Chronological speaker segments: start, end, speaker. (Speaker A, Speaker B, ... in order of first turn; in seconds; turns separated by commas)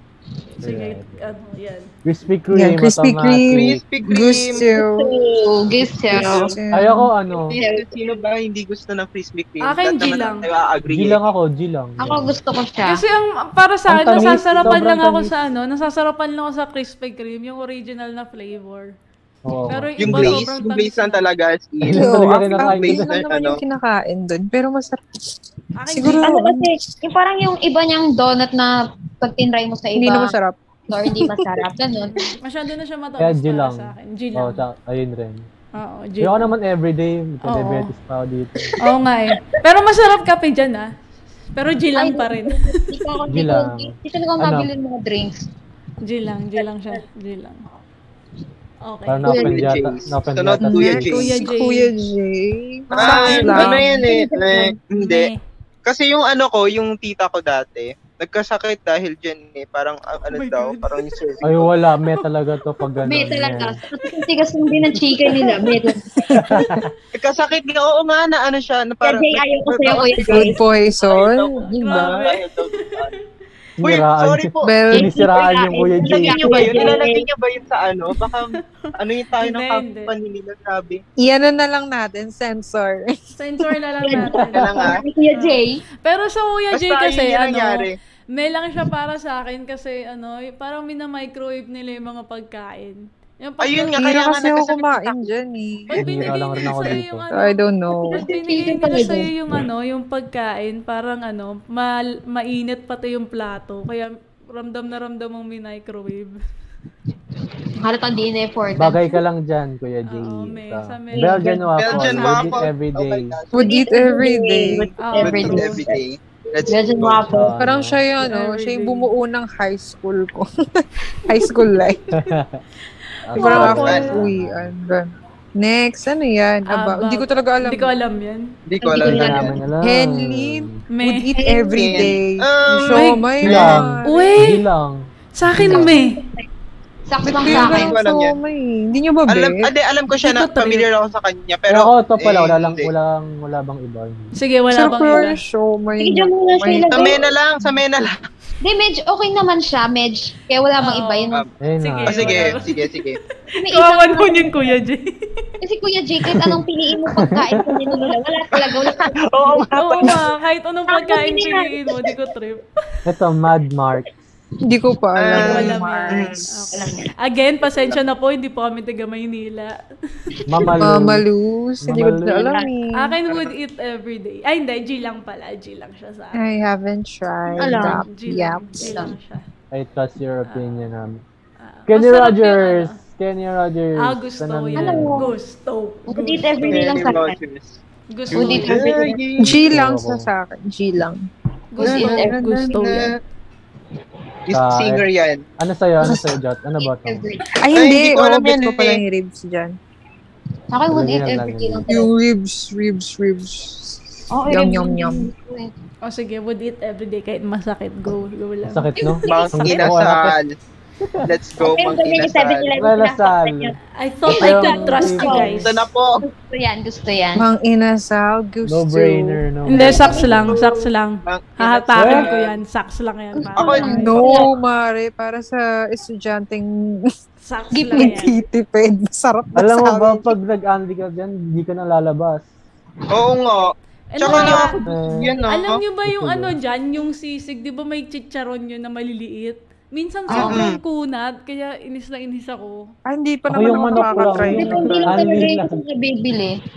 Speaker A: 0.5-1.9, Speaker B: 0.6-1.4, Speaker B: 2.0-3.8, Speaker C: 2.5-5.1, Speaker D: 3.6-4.6, Speaker E: 4.6-6.6, Speaker C: 6.1-7.1, Speaker B: 6.7-7.5, Speaker E: 7.4-8.1, Speaker D: 7.5-11.2, Speaker A: 9.6-10.5, Speaker B: 10.9-12.3, Speaker E: 12.0-13.0, Speaker A: 12.9-18.9, Speaker B: 13.9-15.4, Speaker B: 19.4-20.4, Speaker A: 19.7-21.3, Speaker D: 20.0-23.6, Speaker B: 21.9-23.2, Speaker C: 21.9-25.0, Speaker A: 25.8-26.3, Speaker C: 25.9-26.9, Speaker E: 26.2-30.4, Speaker C: 30.0-31.5, Speaker E: 30.9-32.4, Speaker A: 32.4-34.6, Speaker B: 33.2-35.5, Speaker A: 35.8-36.5, Speaker B: 36.2-38.8, Speaker A: 37.4-37.9, Speaker A: 38.8-40.9, Speaker A: 41.5-42.9, Speaker E: 42.0-45.5, Speaker B: 43.3-44.7, Speaker A: 46.0-47.6, Speaker E: 46.6-47.0, Speaker A: 48.8-49.4, Speaker B: 49.1-51.2, Speaker E: 49.3-49.7, Speaker D: 49.4-51.2, Speaker C: 50.6-53.8, Speaker A: 51.1-51.9, Speaker D: 52.9-55.3, Speaker A: 53.0-53.8, Speaker E: 53.0-54.7, Speaker A: 54.9-55.4, Speaker D: 55.9-61.7, Speaker A: 60.3-62.1, Speaker B: 61.4-63.8, Speaker E: 63.0-66.1, Speaker C: 66.1-66.7, Speaker B: 66.3-66.8, Speaker D: 67.1-73.1, Speaker E: 69.0-70.6, Speaker C: 70.2-72.2, Speaker A: 71.7-73.1, Speaker B: 73.8-76.6, Speaker D: 73.8-74.7, Speaker C: 74.6-75.2, Speaker E: 74.9-77.2, Speaker D: 76.0-81.0, Speaker A: 79.4-80.1, Speaker C: 81.2-83.2, Speaker A: 83.4-94.1, Speaker E: 84.0-85.8, Speaker D: 84.5-85.0, Speaker D: 86.7-88.0, Speaker D: 93.6-95.2, Speaker C: 94.0-96.0, Speaker A: 95.9-106.4, Speaker B: 96.0-97.3, Speaker C: 97.3-98.2, Speaker E: 98.0-99.3, Speaker E: 107.8-109.2, Speaker B: 108.8-113.4, Speaker A: 110.1-112.7, Speaker E: 111.2-111.6, Speaker D: 111.8-113.6, Speaker C: 113.5-114.9, Speaker E: 113.6-116.0, Speaker A: 115.0-115.8, Speaker D: 115.2-117.3, Speaker E: 116.7-117.5, Speaker B: 117.3-118.0, Speaker C: 117.6-122.0, Speaker A: 118.2-119.1, Speaker B: 122.2-122.6, Speaker B: 123.3-124.7, Speaker A: 123.3-124.2, Speaker C: 123.4-127.9, Speaker D: 123.7-124.1, Speaker A: 126.7-128.6, Speaker D: 128.7-129.6, Speaker E: 128.8-129.6, Speaker B: 129.0-130.8, Speaker C: 129.8-134.4, Speaker A: 130.9-131.3, Speaker E: 131.4-132.1, Speaker D: 131.8-133.8, Speaker A: 132.9-133.3, Speaker B: 133.4-135.9, Speaker A: 134.1-134.6, Speaker A: 135.3-136.2, Speaker E: 135.7-136.5, Speaker E: 137.1-138.0, Speaker C: 137.3-139.7, Speaker D: 137.5-138.4, Speaker D: 139.3-142.9, Speaker A: 140.2-140.9, Speaker B: 141.7-144.3, Speaker A: 144.4-145.4, Speaker C: 144.7-147.2, Speaker E: 146.0-147.2, Speaker D: 146.9-148.2, Speaker E: 148.6-151.4, Speaker A: 150.8-153.0, Speaker B: 151.6-152.6, Speaker D: 152.1-153.2, Speaker E: 153.6-154.8, Speaker A: 153.7-155.2, Speaker E: 155.6-160.2, Speaker B: 157.1-157.7, Speaker D: 158.6-160.1, Speaker A: 159.8-162.6, Speaker E: 160.9-162.2, Speaker B: 163.1-164.1, Speaker C: 164.7-166.3, Speaker D: 165.2-166.4, Speaker A: 165.3-169.7, Speaker E: 166.7-167.1, Speaker D: 167.6-168.0, Speaker B: 170.5-171.3, Speaker C: 170.8-173.2, Speaker B: 171.8-172.6, Speaker E: 172.4-172.7, Speaker A: 173.0-176.4, Speaker C: 176.4-178.8, Speaker E: 177.5-178.1, Speaker A: 178.1-179.5, Speaker E: 178.8-179.2, Speaker B: 179.7-181.2, Speaker A: 180.5-180.9, Speaker A: 181.6-183.0, Speaker B: 181.9-185.3, Speaker A: 184.0-187.1, Speaker E: 184.8-185.3, Speaker E: 186.1-187.4, Speaker D: 186.7-187.8, Speaker A: 188.1-188.9, Speaker D: 188.3-189.6, Speaker E: 188.3-189.2, Speaker C: 189.4-191.3, Speaker B: 189.4-190.3, Speaker A: 191.7-193.1, Speaker E: 191.8-193.1, Speaker C: 191.8-192.8, Speaker D: 192.8-193.1, Speaker D: 194.5-195.4, Speaker B: 194.5-195.1, Speaker B: 195.6-197.3, Speaker C: 196.0-196.3, Speaker E: 196.8-197.5, Speaker C: 197.6-199.8, Speaker D: 197.7-199.0, Speaker E: 200.7-202.1, Speaker B: 200.9-201.9, Speaker C: 201.9-205.3, Speaker E: 204.3-205.7, Speaker A: 206.1-208.9, Speaker B: 208.7-210.4, Speaker E: 209.0-209.9, Speaker D: 209.3-210.5, Speaker B: 211.0-211.3, Speaker D: 211.3-212.7, Speaker E: 211.6-213.8, Speaker B: 212.8-213.8, Speaker A: 214.0-215.7, Speaker B: 214.3-215.7, Speaker E: 214.3-217.5, Speaker D: 215.6-216.2, Speaker C: 217.4-219.4, Speaker B: 218.7-220.6, Speaker A: 219.7-224.2, Speaker E: 219.8-220.7, Speaker D: 221.3-222.6, Speaker B: 221.9-222.3, Speaker E: 223.4-224.5, Speaker D: 223.6-224.4, Speaker C: 223.8-227.1, Speaker A: 227.4-228.3, Speaker E: 227.7-228.2, Speaker C: 227.9-230.3, Speaker B: 229.6-232.5, Speaker D: 233.1-235.8, Speaker A: 234.1-234.8, Speaker E: 234.3-234.8, Speaker B: 234.9-235.3, Speaker A: 235.5-242.9, Speaker B: 236.1-236.6, Speaker E: 240.3-240.7, Speaker D: 240.3-240.8, Speaker C: 243.1-245.3, Speaker B: 243.5-245.8, Speaker E: 243.9-246.6